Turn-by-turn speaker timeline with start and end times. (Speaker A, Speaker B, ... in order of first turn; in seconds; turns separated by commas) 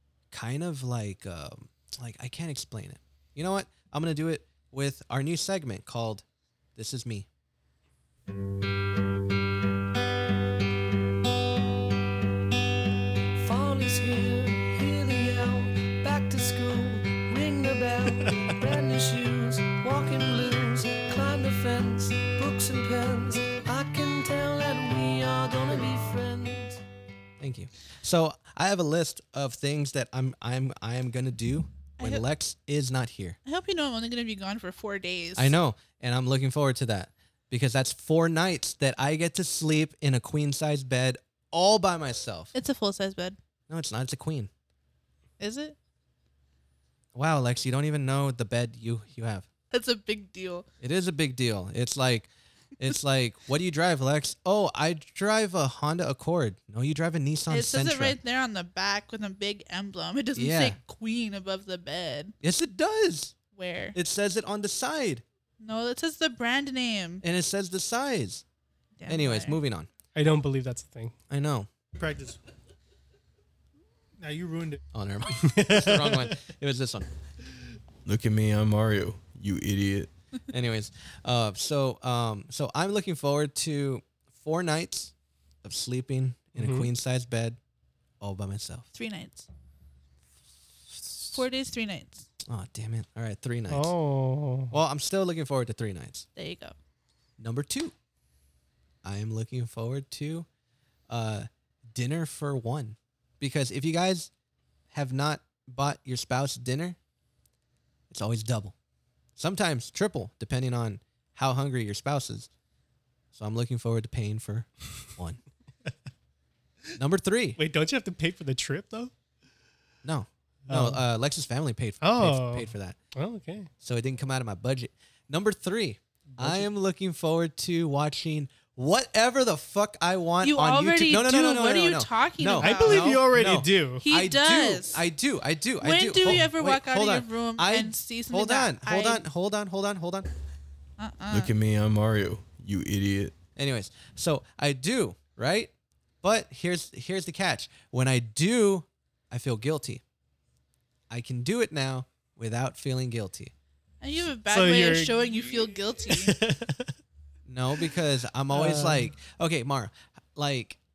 Speaker A: 0.3-6.2, Speaker A: 6.8-7.3, Speaker B: 13.4-26.8, Speaker A: 27.4-33.4, Speaker C: 32.0-32.2, Speaker C: 33.4-35.5, Speaker A: 35.4-42.5, Speaker C: 42.5-43.4, Speaker A: 43.7-44.5, Speaker C: 45.4-45.8, Speaker A: 47.1-49.5, Speaker C: 49.7-50.6, Speaker A: 50.8-58.2, Speaker C: 57.5-62.3, Speaker A: 60.3-60.8, Speaker A: 62.4-63.4, Speaker C: 63.5-64.0, Speaker A: 63.9-65.2, Speaker C: 65.6-67.2, Speaker A: 67.2-68.4, Speaker C: 69.0-69.6, Speaker A: 69.1-69.9, Speaker D: 70.1-71.2, Speaker A: 71.3-71.7, Speaker D: 72.0-72.4, Speaker D: 74.2-74.8, Speaker A: 74.9-77.1, Speaker D: 75.4-76.4, Speaker E: 78.0-80.1, Speaker A: 80.5-85.1, Speaker A: 85.6-87.6, Speaker D: 86.6-86.9, Speaker A: 88.2-88.9, Speaker C: 88.9-89.5, Speaker C: 91.3-92.3, Speaker A: 92.5-93.9, Speaker D: 93.7-94.7, Speaker A: 94.7-96.3, Speaker C: 96.4-96.7, Speaker A: 97.4-97.9, Speaker A: 99.0-100.5, Speaker A: 101.1-104.3, Speaker A: 104.9-107.0, Speaker A: 108.1-108.7, Speaker A: 109.4-112.5, Speaker A: 113.3-115.4, Speaker A: 117.0-117.6, Speaker D: 117.6-119.1, Speaker A: 120.0-123.0, Speaker D: 120.7-121.0, Speaker D: 122.0-123.7, Speaker A: 123.8-140.3, Speaker D: 126.3-126.7, Speaker C: 130.4-133.2, Speaker D: 132.6-134.0, Speaker C: 134.0-135.0, Speaker C: 135.8-139.2, Speaker C: 141.0-141.5, Speaker E: 141.3-143.3, Speaker A: 143.6-145.7, Speaker A: 146.2-150.0, Speaker A: 151.1-153.5, Speaker C: 154.0-156.4, Speaker D: 154.5-155.1, Speaker D: 156.1-156.9, Speaker A: 157.4-160.8, Speaker D: 158.5-159.1